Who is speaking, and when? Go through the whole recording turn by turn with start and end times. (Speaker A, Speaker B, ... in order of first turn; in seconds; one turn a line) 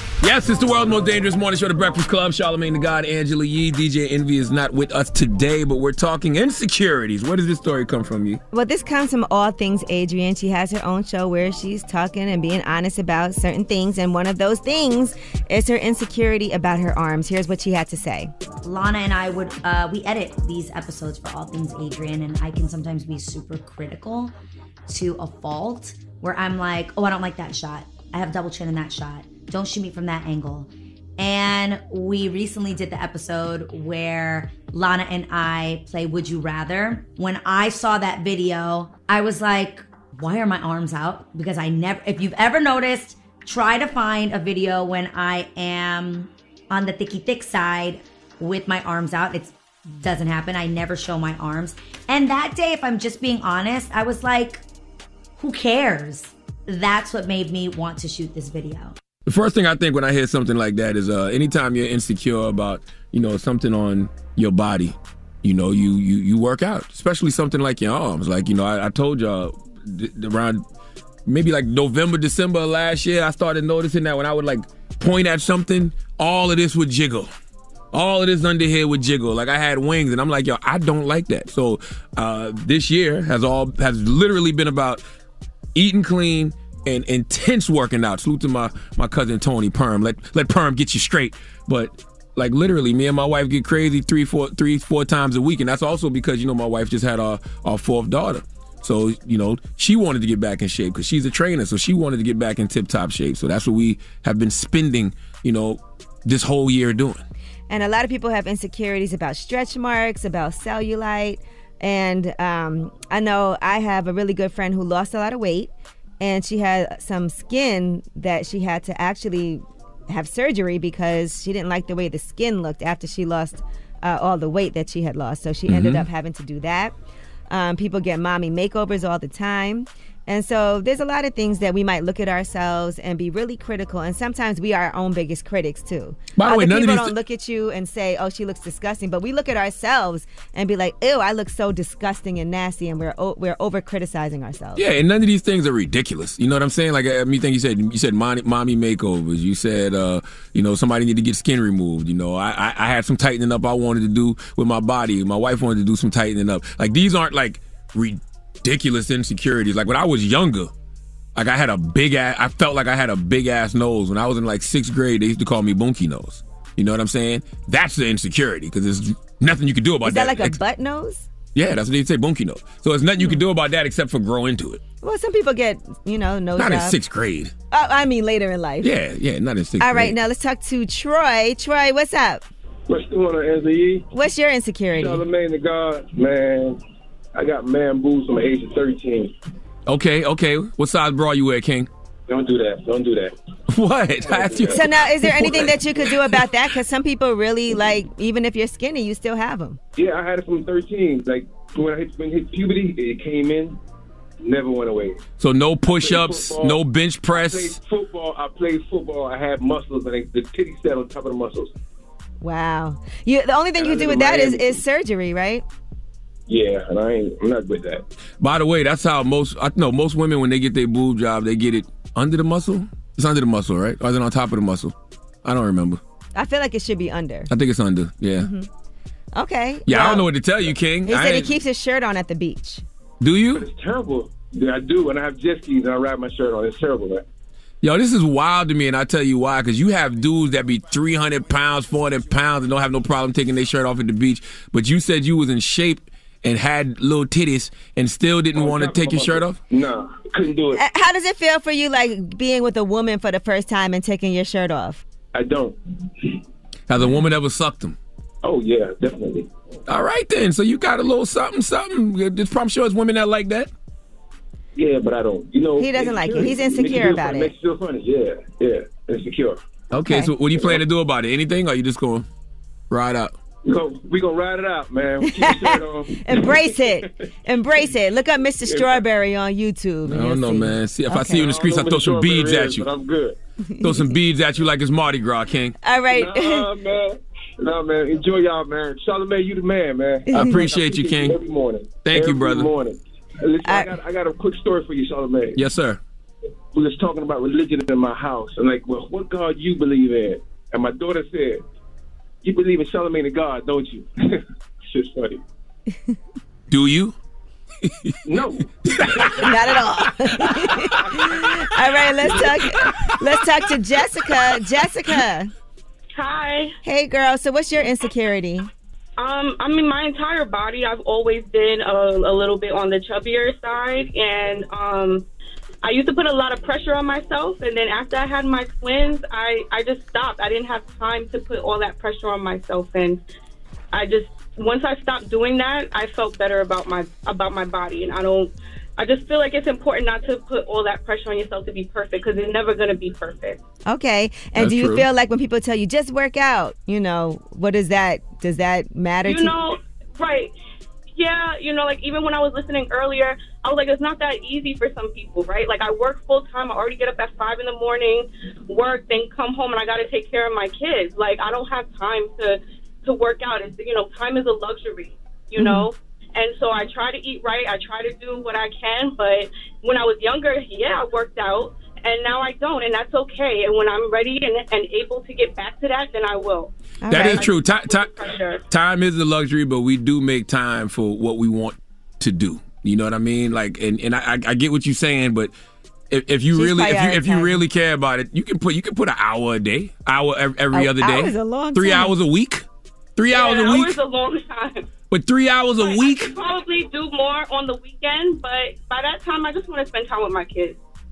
Speaker A: 0.2-8.4
Speaker B: 8.5-18.3
Speaker C: 18.6-24.3
Speaker C: 24.9-54.6
Speaker C: 55.4-59.0
Speaker A: 59.2-70.6
Speaker A: 71.2-77.3
Speaker A: 77.9-85.0
Speaker A: 85.7-107.2
Speaker B: 107.7-126.9
Speaker A: 125.7-126.1
Speaker B: 127.5-144.8
Speaker A: 136.3-137.1
Speaker A: 144.8-160.7
Speaker A: 161.3-170.6
Speaker B: 170.0-171.3
Speaker A: 171.5-174.8
Speaker B: 175.0-176.9
Speaker A: 176.6-177.5
Speaker B: 177.7-178.9
Speaker A: 178.8-180.2
Speaker B: 179.8-182.4
Speaker D: 182.9-184.1
Speaker B: 184.1-185.2
Speaker D: 184.9-186.8
Speaker D: 187.3-189.3
Speaker A: 189.9-191.9
Speaker D: 192.3-193.3
Speaker A: 193.7-196.4
Speaker D: 194.2-194.8
Speaker B: 194.7-199.8
Speaker D: 200.0-203.8
Speaker D: 204.4-205.2
Speaker A: 205.4-207.8
Speaker D: 205.8-211.7
Speaker B: 212.4-215.6
Speaker D: 213.8-214.8
Speaker D: 216.5-218.0
Speaker A: 218.4-224.9
Speaker A: 225.4-226.0
Speaker B: 226.3-227.5
Speaker A: 227.5-228.5
Speaker B: 228.4-228.7
Speaker B: 229.3-230.2
Speaker A: 229.9-231.6
Speaker B: 231.0-232.8
Speaker A: 233.2-233.7
Speaker D: 233.5-237.2
Speaker A: 237.8-249.6
Speaker D: 248.5-250.8
Speaker B: 250.7-255.0
Speaker D: 255.3-256.3
Speaker A: 256.9-257.9
Speaker D: 258.4-259.5
Speaker A: 259.9-263.7
Speaker D: 264.8-269.6
Speaker B: 265.8-267.5
Speaker A: 269.9-272.3
Speaker B: 270.1-270.3
Speaker D: 270.5-270.8
Speaker A: 272.9-273.3
Speaker D: 273.6-277.1
Speaker B: 275.3-281.5
Speaker D: 278.6-279.0
Speaker A: 280.1-282.9
Speaker D: 281.3-283.4
Speaker B: 283.7-284.1
Speaker A: 283.8-285.8
Speaker B: 285.8-286.7
Speaker D: 286.1-295.6
Speaker B: 290.3-290.6
Speaker A: 290.3-291.4
Speaker A: 292.0-292.7
Speaker B: 293.6-293.9
Speaker A: 295.5-296.0
Speaker D: 296.7-301.6
Speaker D: 302.4-305.4
Speaker A: 306.7-307.1
Speaker A: 307.8-309.5
Speaker D: 308.3-309.4
Speaker B: 309.4-315.5
Speaker E: 316.1-316.7
Speaker B: 316.8-318.7
Speaker E: 319.2-325.2
Speaker E: 325.8-333.2
Speaker E: 333.9-343.6
Speaker B: 343.9-349.6
Speaker A: 344.6-345.1
Speaker E: 349.2-350.5
Speaker E: 351.1-378.6
Speaker B: 365.6-365.9
Speaker B: 377.0-377.5
Speaker A: 377.1-385.5
Speaker A: 386.1-394.0
Speaker B: 386.5-387.6
Speaker B: 390.7-392.1
Speaker E: 393.3-394.9
Speaker A: 395.1-396.4
Speaker E: 395.8-400.8